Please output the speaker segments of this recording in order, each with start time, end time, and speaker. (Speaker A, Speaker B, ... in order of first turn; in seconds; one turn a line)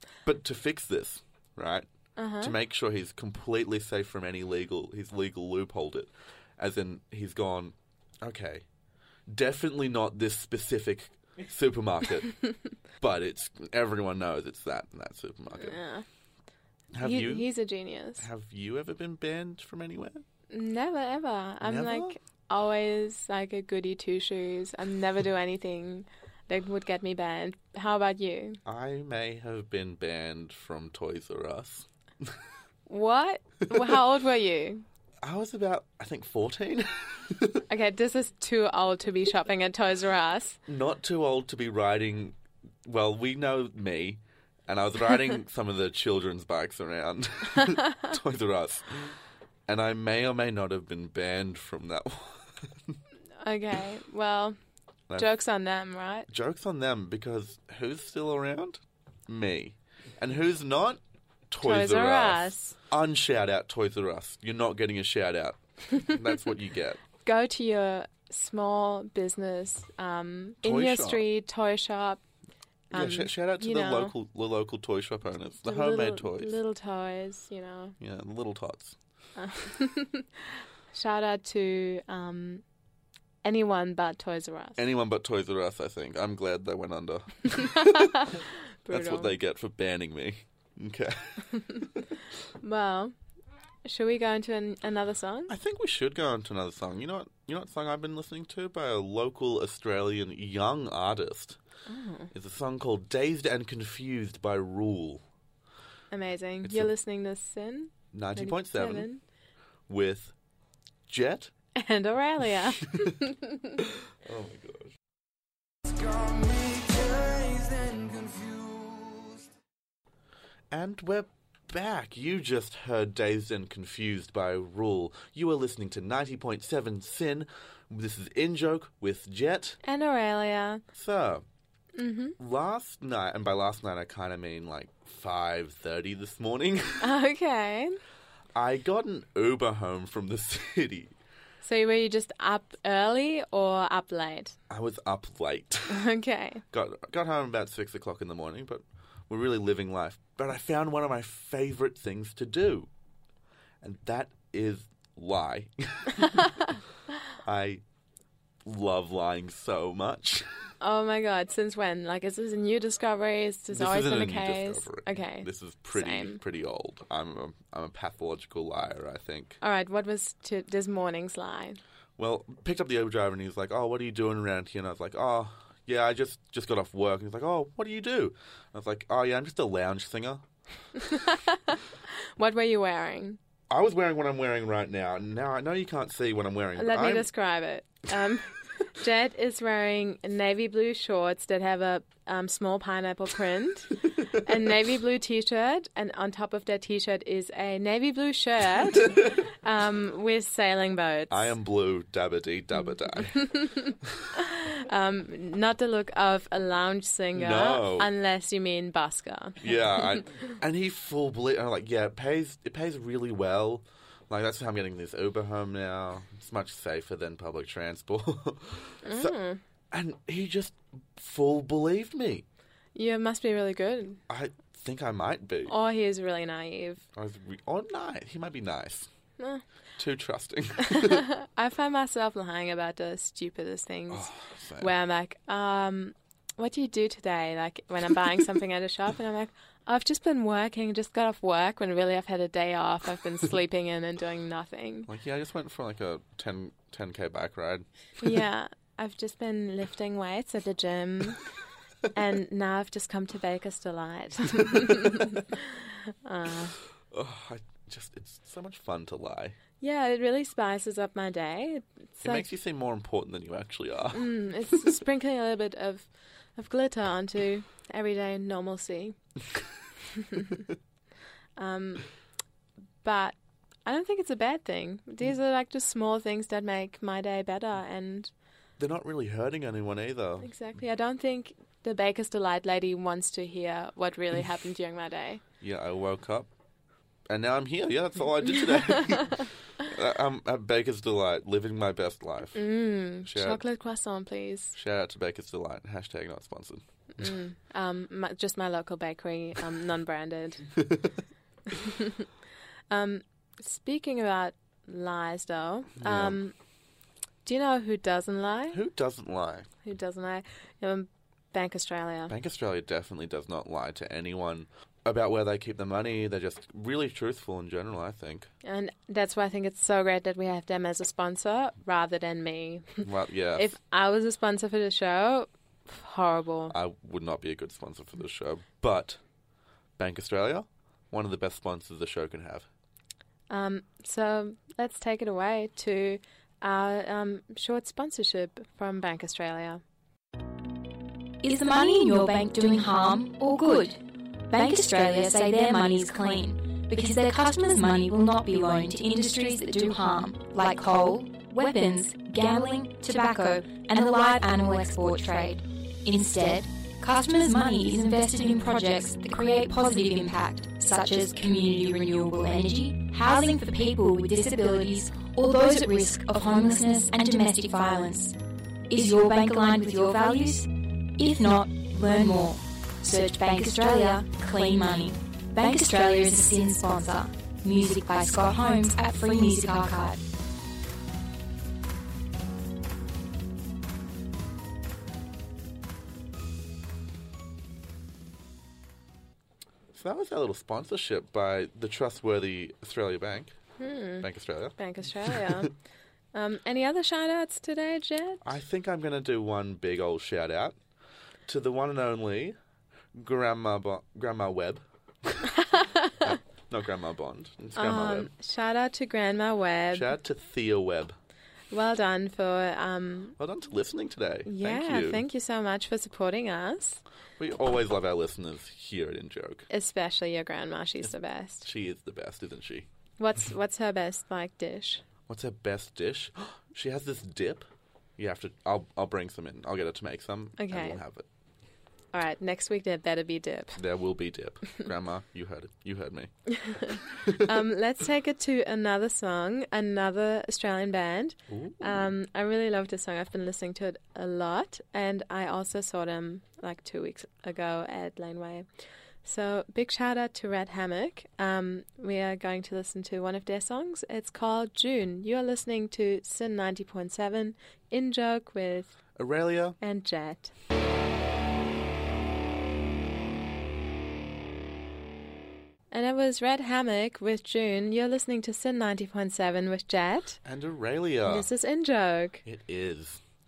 Speaker A: 0.2-1.9
Speaker B: 2.2-2.5
Speaker A: 2.4-8.7
Speaker A: 9.3-12.4
Speaker A: 13.0-15.8
Speaker B: 15.6-16.1
Speaker A: 16.9-17.5
Speaker B: 17.0-18.3
Speaker A: 18.2-20.2
Speaker B: 20.5-28.6
Speaker A: 21.6-22.1
Speaker A: 28.7-32.4
Speaker B: 32.9-34.9
Speaker A: 35.2-37.6
Speaker B: 37.7-40.6
Speaker A: 40.7-49.2
Speaker A: 49.7-53.0
Speaker B: 53.4-54.6
Speaker B: 55.2-56.3
Speaker A: 56.3-67.0
Speaker B: 61.6-62.8
Speaker B: 67.2-72.2
Speaker A: 70.6-71.2
Speaker B: 72.9-74.2
Speaker A: 72.9-76.6
Speaker B: 75.7-78.0
Speaker A: 78.0-79.0
Speaker B: 79.4-82.6
Speaker B: 83.4-84.8
Speaker A: 84.8-88.3
Speaker B: 87.6-89.3
Speaker A: 88.9-91.8
Speaker B: 92.6-93.2
Speaker B: 93.8-95.5
Speaker A: 95.5-101.6
Speaker B: 101.9-102.3
Speaker A: 102.3-105.2
Speaker B: 106.1-109.2
Speaker A: 106.6-106.9
Speaker A: 108.1-109.1
Speaker A: 109.9-110.3
Speaker A: 111.1-111.5
Speaker B: 111.8-113.8
Speaker A: 113.9-115.0
Speaker C: 115.8-119.5
Speaker A: 120.7-129.8
Speaker B: 129.8-130.8
Speaker A: 130.9-131.4
Speaker B: 131.9-132.4
Speaker A: 132.4-137.1
Speaker B: 137.0-138.0
Speaker A: 138.6-141.1
Speaker B: 141.6-144.6
Speaker A: 144.7-146.1
Speaker B: 145.9-146.6
Speaker A: 146.7-152.9
Speaker A: 153.8-156.8
Speaker A: 157.4-157.8
Speaker A: 158.7-160.7
Speaker B: 160.8-166.4
Speaker A: 163.7-169.6
Speaker B: 169.6-171.8
Speaker A: 172.2-180.4
Speaker B: 181.0-183.4
Speaker A: 183.7-187.3
Speaker B: 186.8-201.5
Speaker A: 201.3-204.3
Speaker B: 203.5-210.0
Speaker A: 207.3-208.1
Speaker A: 209.6-219.3
Speaker B: 219.0-219.6
Speaker A: 219.9-222.4
Speaker B: 222.9-224.2
Speaker A: 224.3-225.7
Speaker B: 225.7-227.0
Speaker A: 227.2-229.1
Speaker A: 230.0-231.3
Speaker B: 230.8-245.1
Speaker A: 234.1-234.9
Speaker A: 245.1-248.3
Speaker B: 248.2-251.4
Speaker B: 252.1-256.8
Speaker A: 257.1-259.6
Speaker B: 259.8-262.5
Speaker A: 262.2-264.3
Speaker B: 264.1-269.2
Speaker B: 270.1-270.6
Speaker B: 271.6-272.1
Speaker B: 273.0-278.3
Speaker A: 278.8-280.5
Speaker B: 280.4-285.4
Speaker A: 285.6-286.5
Speaker A: 287.3-292.6
Speaker B: 292.6-294.8
Speaker A: 293.2-293.6
Speaker A: 294.8-296.8
Speaker B: 297.2-300.7
Speaker B: 301.7-302.3
Speaker B: 302.9-306.5
Speaker A: 306.0-306.4
Speaker B: 307.4-308.8
Speaker A: 308.7-309.7
Speaker B: 309.8-312.3
Speaker A: 312.3-318.5
Speaker B: 318.6-326.8
Speaker A: 323.0-323.7
Speaker A: 326.7-329.2
Speaker A: 330.0-332.7
Speaker B: 333.5-339.8
Speaker D: 341.4-368.4
Speaker D: 368.9-380.2
Speaker A: 389.9-393.6
Speaker B: 393.8-395.7
Speaker A: 394.2-395.7
Speaker B: 396.3-398.5
Speaker A: 398.4-400.8
Speaker A: 401.5-402.6
Speaker A: 403.1-405.6
Speaker B: 405.7-406.3
Speaker A: 406.2-408.3
Speaker B: 407.8-410.1
Speaker A: 409.9-411.2
Speaker B: 411.7-413.4
Speaker A: 413.4-415.2
Speaker B: 414.5-417.0
Speaker A: 417.4-419.7
Speaker B: 419.7-421.7
Speaker A: 421.6-422.9
Speaker B: 423.2-425.0
Speaker A: 425.3-431.3
Speaker B: 430.6-431.0
Speaker B: 432.1-433.8
Speaker A: 433.8-436.3
Speaker B: 436.5-448.7
Speaker A: 436.9-437.5
Speaker A: 441.5-442.1
Speaker B: 449.2-459.0
Speaker A: 459.2-459.8
Speaker B: 459.8-460.5
Speaker B: 465.9-470.4
Speaker A: 470.4-471.5
Speaker B: 471.2-472.4
Speaker A: 472.4-473.2